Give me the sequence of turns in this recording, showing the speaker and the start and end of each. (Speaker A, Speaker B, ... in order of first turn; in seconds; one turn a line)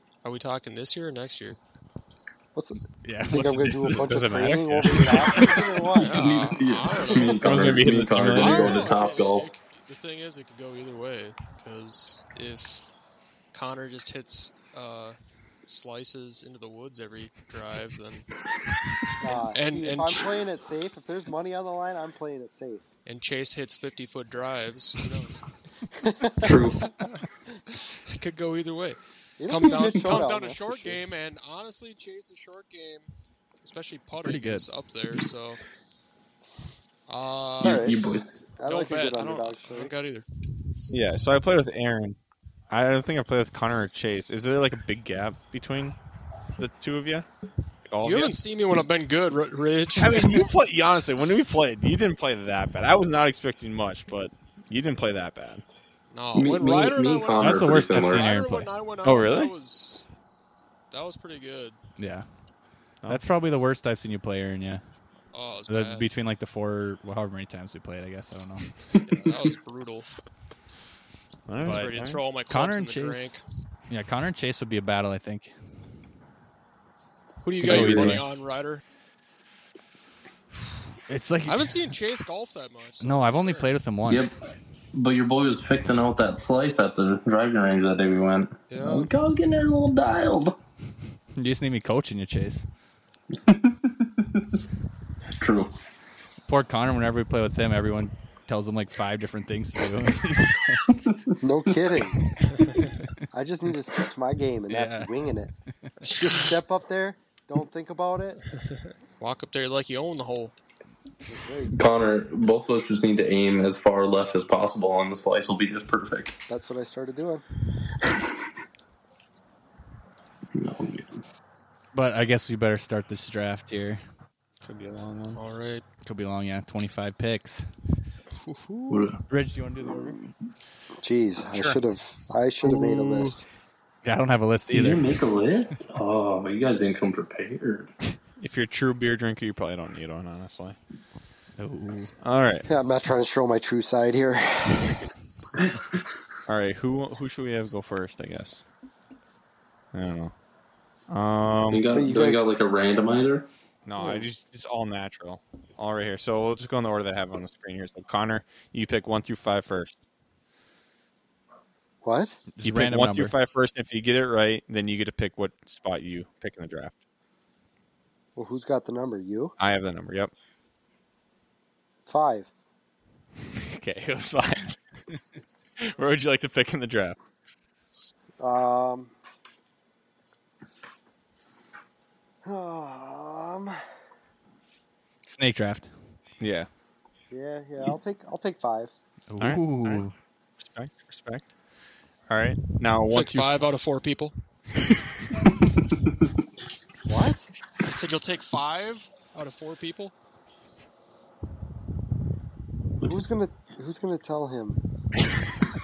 Speaker A: 0.2-1.6
Speaker B: 2.5-6.4
Speaker C: 3.0-4.2
Speaker D: 3.8-5.6
Speaker A: 5.9-7.7
Speaker E: 6.1-9.5
Speaker D: 7.4-8.9
Speaker A: 8.3-12.9
Speaker A: 13.5-18.3
Speaker B: 19.2-22.8
Speaker A: 19.3-20.4
Speaker A: 23.1-25.4
Speaker B: 26.0-26.7
Speaker E: 26.4-26.9
Speaker A: 26.8-27.2
Speaker A: 27.9-33.1
Speaker B: 29.4-31.0
Speaker A: 33.6-35.6
Speaker C: 34.2-34.7
Speaker A: 37.1-37.9
Speaker B: 37.6-38.0
Speaker E: 37.6-38.4
Speaker B: 38.6-39.9
Speaker A: 38.6-40.3
Speaker D: 40.9-42.2
Speaker D: 42.7-46.0
Speaker D: 46.6-47.3
Speaker D: 47.9-48.4
Speaker A: 48.0-50.5
Speaker D: 50.0-55.6
Speaker A: 56.1-60.1
Speaker E: 56.3-58.3
Speaker C: 57.4-59.5
Speaker A: 60.9-61.8
Speaker C: 62.0-62.3
Speaker C: 63.1-64.8
Speaker A: 65.3-66.1
Speaker C: 65.7-68.7
Speaker A: 69.1-70.1
Speaker D: 71.5-72.2
Speaker C: 71.6-72.0
Speaker A: 71.6-73.4
Speaker C: 72.5-75.6
Speaker A: 77.4-78.8
Speaker C: 77.6-78.3
Speaker E: 77.7-78.2
Speaker C: 81.1-81.9
Speaker A: 81.5-83.7
Speaker C: 83.0-84.4
Speaker E: 84.1-84.4
Speaker E: 84.9-90.6
Speaker A: 88.7-89.1
Speaker C: 91.4-92.7
Speaker E: 93.3-94.5
Speaker E: 95.4-95.7
Speaker C: 96.5-101.0
Speaker E: 101.0-101.4
Speaker B: 101.4-102.2
Speaker A: 102.5-102.8
Speaker B: 103.3-105.5
Speaker C: 104.7-105.1
Speaker A: 106.0-106.5
Speaker B: 106.1-108.4
Speaker A: 108.7-110.5
Speaker B: 111.3-111.8
Speaker E: 111.7-116.3
Speaker B: 116.5-117.4
Speaker E: 120.5-121.2
Speaker C: 121.9-124.0
Speaker D: 124.6-125.4
Speaker A: 125.3-125.8
Speaker C: 126.0-127.7
Speaker E: 128.9-129.2
Speaker C: 129.3-130.2
Speaker B: 129.9-130.2
Speaker B: 131.0-133.4
Speaker C: 132.7-133.3
Speaker C: 134.0-135.2
Speaker E: 134.7-137.9
Speaker D: 138.4-140.8
Speaker C: 141.6-142.1
Speaker D: 142.2-142.7
Speaker B: 142.7-145.0
Speaker D: 146.5-148.7
Speaker D: 149.9-150.4
Speaker D: 151.1-151.9
Speaker E: 151.7-153.5
Speaker B: 151.9-152.5
Speaker D: 153.8-160.0
Speaker B: 154.0-154.3
Speaker B: 162.0-162.4
Speaker C: 162.5-163.3
Speaker D: 162.6-166.9
Speaker B: 168.4-169.5
Speaker D: 169.6-170.3
Speaker B: 172.1-172.5
Speaker D: 173.5-174.8
Speaker D: 175.8-177.2
Speaker B: 178.4-179.1
Speaker B: 182.4-183.8
Speaker C: 185.2-185.9
Speaker D: 186.4-186.7
Speaker B: 187.3-188.9
Speaker C: 189.3-190.2
Speaker D: 189.4-190.0
Speaker D: 190.6-191.5
Speaker D: 192.3-193.6
Speaker A: 193.1-194.3
Speaker B: 197.1-197.5
Speaker A: 197.8-200.1
Speaker B: 203.0-204.8